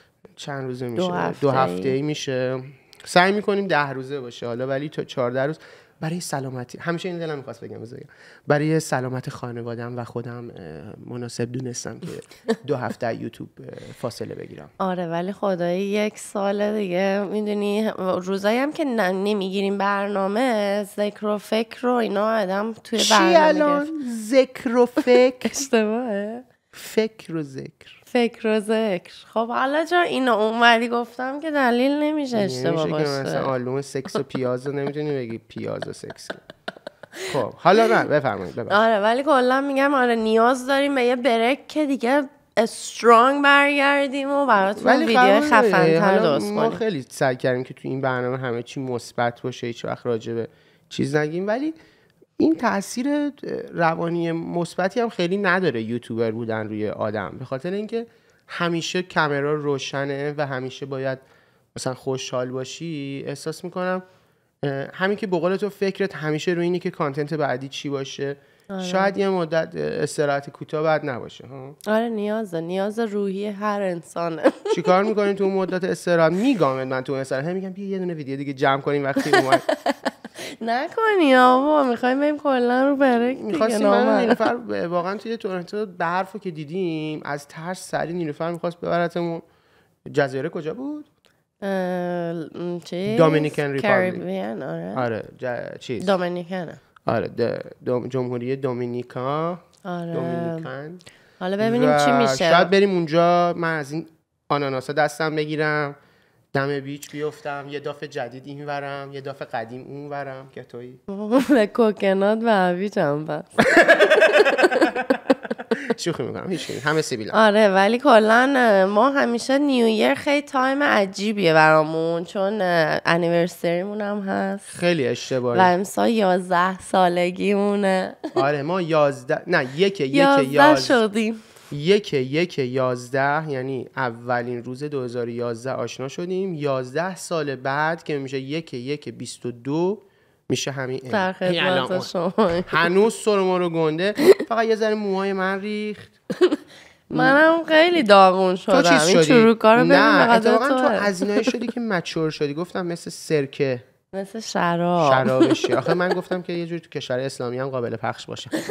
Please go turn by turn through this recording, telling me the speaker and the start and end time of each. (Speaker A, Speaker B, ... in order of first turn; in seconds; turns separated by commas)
Speaker A: 0.4-14.7, Speaker B: 1.0-1.9, Speaker B: 14.8-23.9, Speaker A: 23.0-25.5, Speaker B: 25.0-26.4, Speaker A: 26.7-27.9, Speaker B: 28.1-33.5, Speaker A: 32.3-36.4, Speaker A: 37.3-38.8, Speaker B: 38.7-46.8, Speaker A: 44.8-51.8, Speaker A: 52.4-64.0, Speaker A: 64.6-71.8, Speaker B: 68.7-69.1, Speaker B: 71.9-74.9, Speaker A: 74.7-79.6, Speaker B: 79.3-84.4, Speaker A: 83.3-89.4, Speaker A: 90.1-91.1, Speaker B: 91.6-95.0, Speaker A: 93.1-94.2, Speaker A: 95.0-96.1, Speaker B: 96.0-96.8, Speaker A: 97.1-101.0, Speaker B: 99.8-100.7, Speaker B: 101.4-102.7, Speaker A: 101.6-106.0, Speaker A: 106.5-111.0, Speaker B: 111.1-115.0, Speaker A: 113.7-115.2, Speaker A: 115.8-117.4, Speaker B: 117.3-124.7, Speaker A: 124.7-125.7, Speaker B: 125.5-128.3, Speaker A: 128.3-131.0, Speaker B: 130.1-131.4, Speaker A: 131.7-142.1, Speaker B: 141.1-142.9, Speaker A: 142.7-146.1, Speaker A: 147.1-147.4, Speaker B: 147.1-151.6, Speaker A: 148.7-153.9, Speaker B: 154.1-155.8, Speaker A: 155.0-158.5